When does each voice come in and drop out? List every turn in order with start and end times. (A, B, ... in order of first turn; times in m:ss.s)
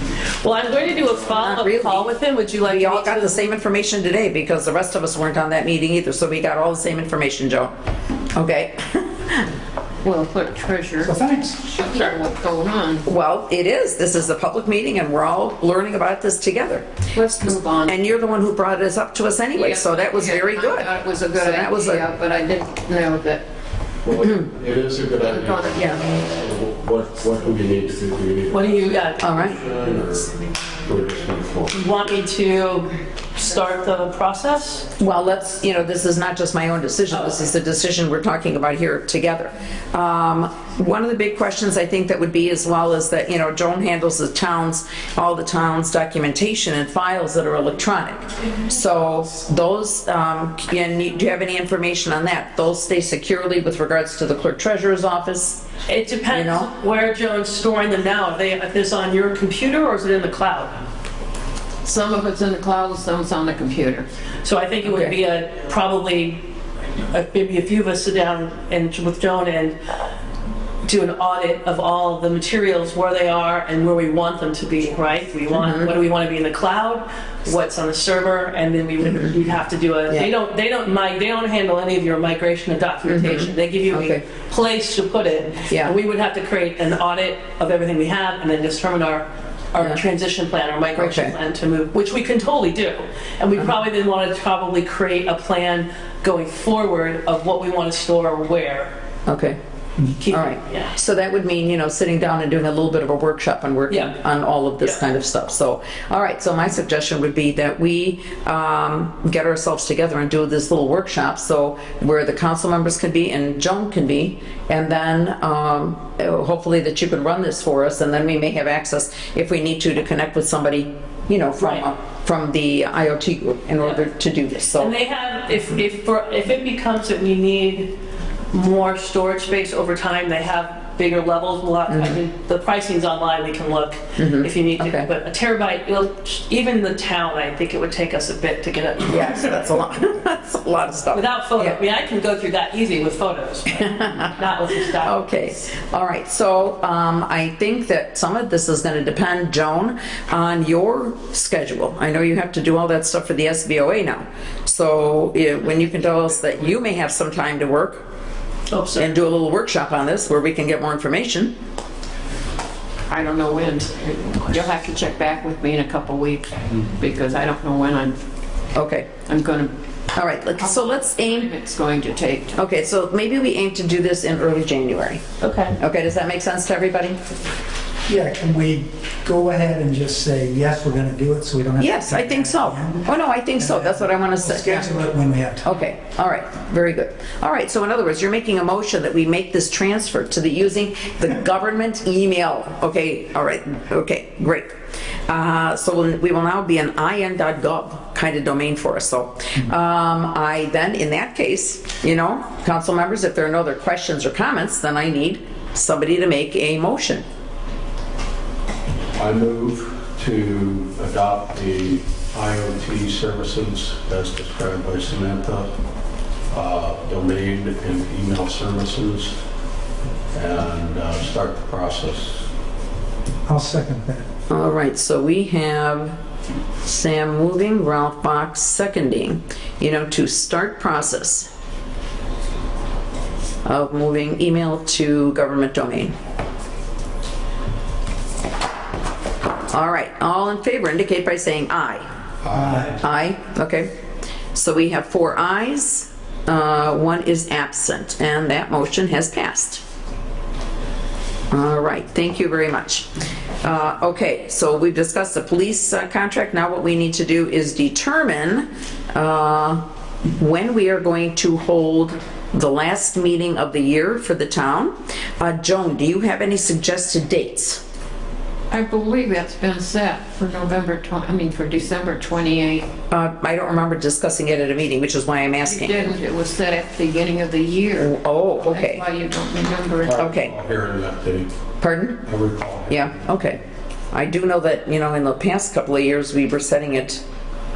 0:00.4-0:03.5 A
0:01.4-0:02.1 B
0:02.6-0:07.7 B
0:08.3-0:09.4 B
0:10.0-0:13.0 C
0:11.0-0:11.6 D
0:13.0-0:16.8 B
0:17.1-0:18.0 C
0:17.9-0:22.0 B
0:19.6-0:23.4 C
0:24.0-0:28.7 E
0:25.2-0:26.0 C
0:28.5-0:29.5 A
0:29.2-0:29.6 B
0:29.3-0:30.3 E
0:30.8-0:31.7 E
0:31.7-0:34.9 A
0:35.0-0:55.6 B
0:37.1-0:37.4 A
0:55.9-1:00.8 A
0:56.3-0:56.7 B
1:01.8-1:04.0 C
1:04.4-1:06.5 A
1:04.8-1:05.1 B
1:07.1-1:09.8 A
1:10.8-1:38.9 A
1:15.5-1:15.9 B
1:19.0-1:19.3 B
1:23.0-1:24.2 B
1:31.0-1:31.3 B
1:39.2-1:39.6 B
1:40.2-1:40.9 A
1:40.3-2:04.9 B
1:43.9-1:44.2 A
2:01.6-2:01.8 A
2:04.8-2:07.9 A
2:08.5-2:19.6 A
2:11.9-2:12.2 B
2:14.2-2:15.1 B
2:19.0-2:21.8 B
2:21.1-2:25.3 A
2:23.9-2:24.3 B
2:25.0-2:38.0 B
2:38.7-2:39.1 A
2:39.0-2:41.5 B
2:43.1-2:48.2 C
2:48.7-2:49.1 B
2:49.2-2:49.7 C
2:50.1-2:51.5 B
2:50.5-2:52.6 C
2:52.6-2:55.2 B
2:55.4-2:55.8 A
2:55.8-2:57.2 B
2:58.1-3:05.6 D
3:01.8-3:04.9 B
3:05.6-3:14.7 B
3:15.3-3:27.2 B
3:29.2-3:35.7 E
3:36.5-3:39.4 E
3:40.3-3:42.4 E
3:43.5-3:44.2 D
3:44.5-3:46.2 B
3:46.8-3:51.5 B
3:53.6-3:56.1 B
3:59.7-4:02.0 B
4:02.5-4:02.9 D
4:03.0-4:03.9 B
4:04.5-4:09.8 B
4:11.5-4:13.0 B
4:13.6-4:19.8 B
4:20.4-4:27.8 B
4:28.7-4:32.9 C
4:33.1-4:36.1 B
4:35.6-4:40.3 C
4:38.0-4:39.0 B
4:40.0-4:41.5 E
4:40.2-4:40.5 B
4:41.8-4:42.2 B
4:42.2-4:43.1 E
4:42.9-4:43.6 B
4:44.1-4:47.2 B